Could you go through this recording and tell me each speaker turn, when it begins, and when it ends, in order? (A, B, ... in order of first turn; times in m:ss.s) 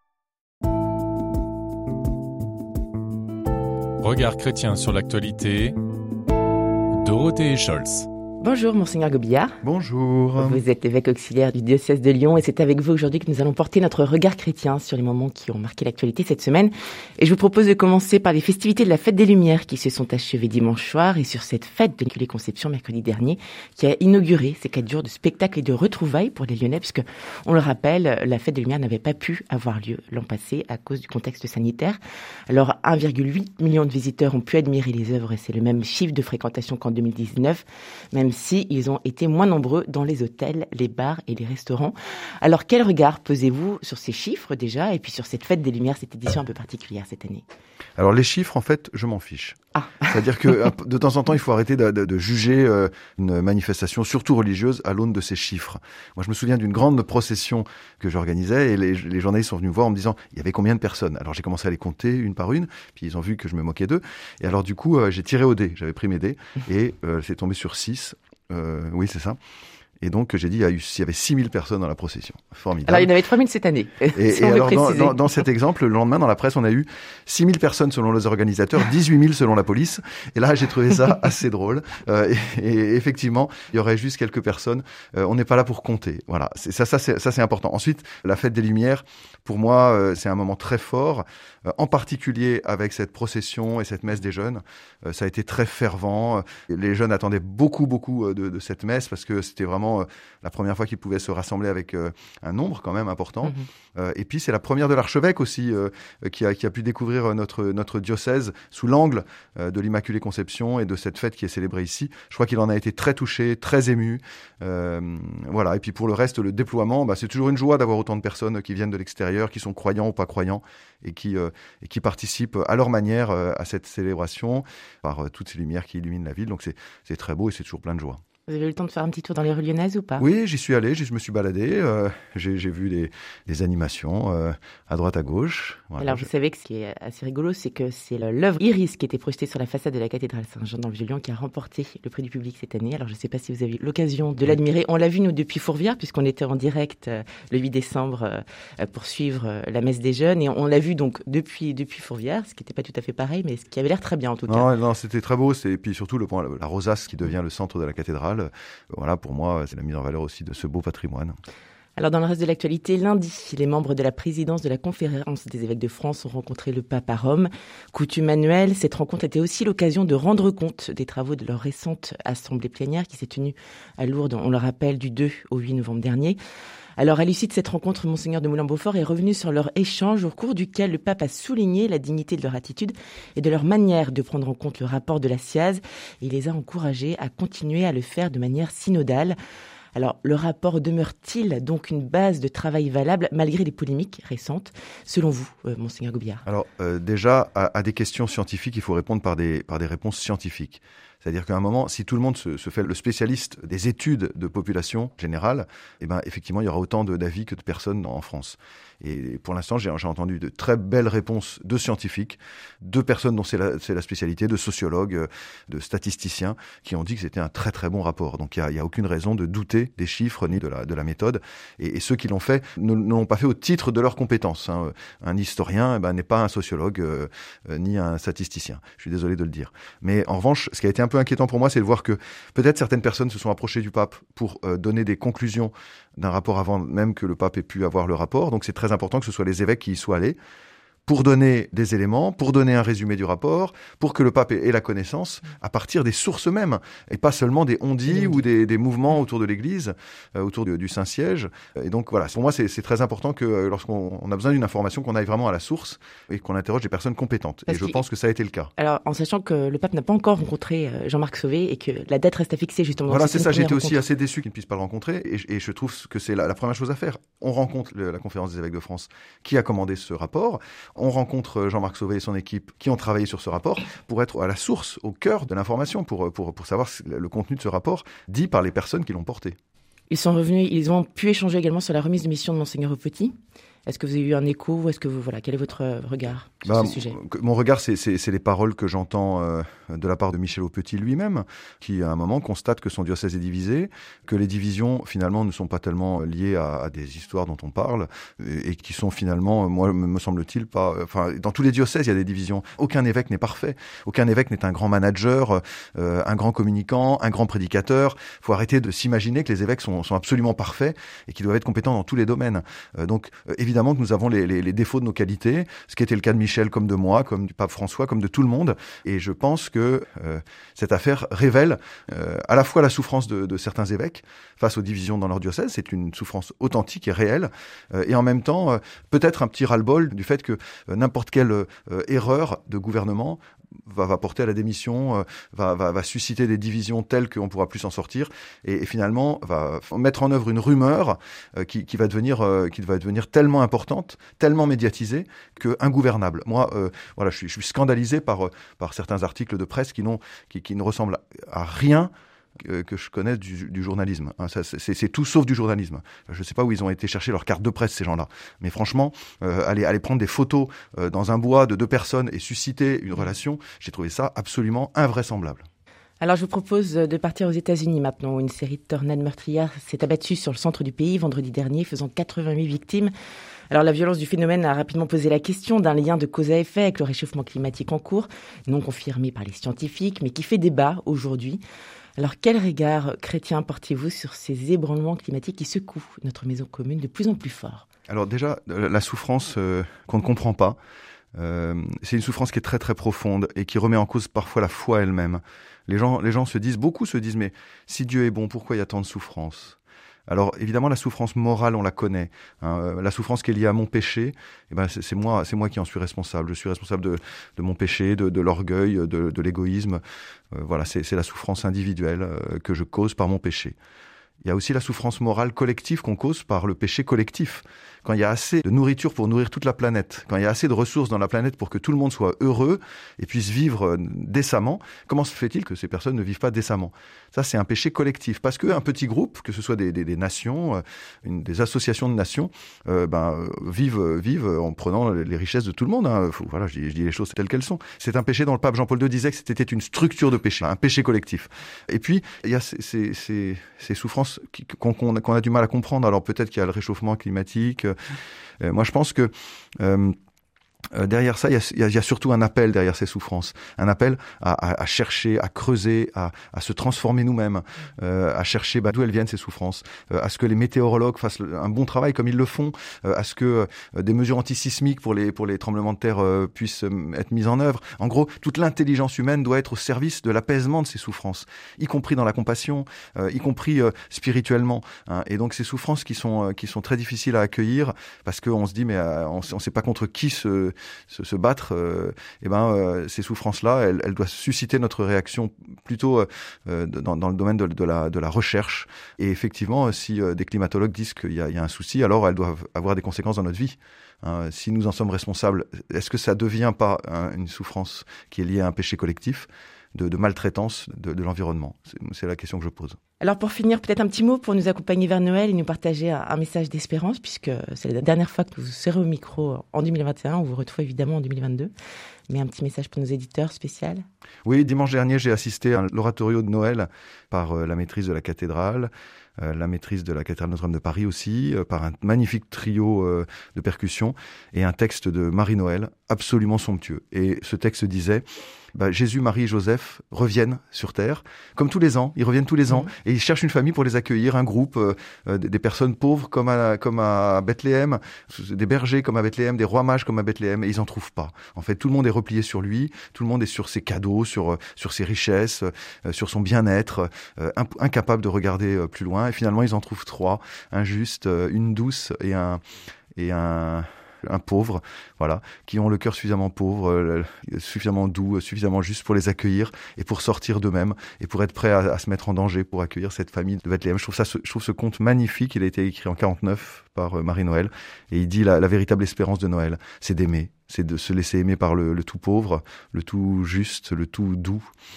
0:04.0-0:05.8 A
0:06.9-0:08.1 A
0:08.4-0:09.6 B
0:09.6-0:10.6 C
0:10.4-0:47.4 B
0:48.0-1:09.4 C
1:10.0-1:13.1 C
1:12.8-1:15.3 B
1:14.1-2:08.2 C
2:08.5-2:10.2 B
2:10.2-2:16.3 C
2:16.0-2:34.7 B
2:34.5-2:41.4 C
2:42.0-2:56.4 B
2:57.0-3:09.4 B
3:09.9-3:16.4 B
3:16.4-4:00.4 C
4:01.1-4:18.7 C
4:17.7-4:18.0 B
4:18.8-4:24.0 B
4:23.1-4:39.6 C
4:40.1-4:43.3 B
4:43.8-4:47.2 B
4:46.6-5:52.1 C
5:52.6-6:05.6 C
6:06.2-6:13.1 B
6:13.7-6:21.6 B
6:22.2-6:27.8 B
6:28.1-6:30.8 C
6:31.4-6:50.0 C
6:50.5-6:53.7 C
6:54.4-7:27.9 C
7:28.6-7:30.2 C
7:30.9-8:23.0 C
8:23.2-8:31.7 B
8:32.3-8:34.0 B
8:34.4-8:48.2 C
8:48.7-9:12.6 C
9:13.2-9:34.7 C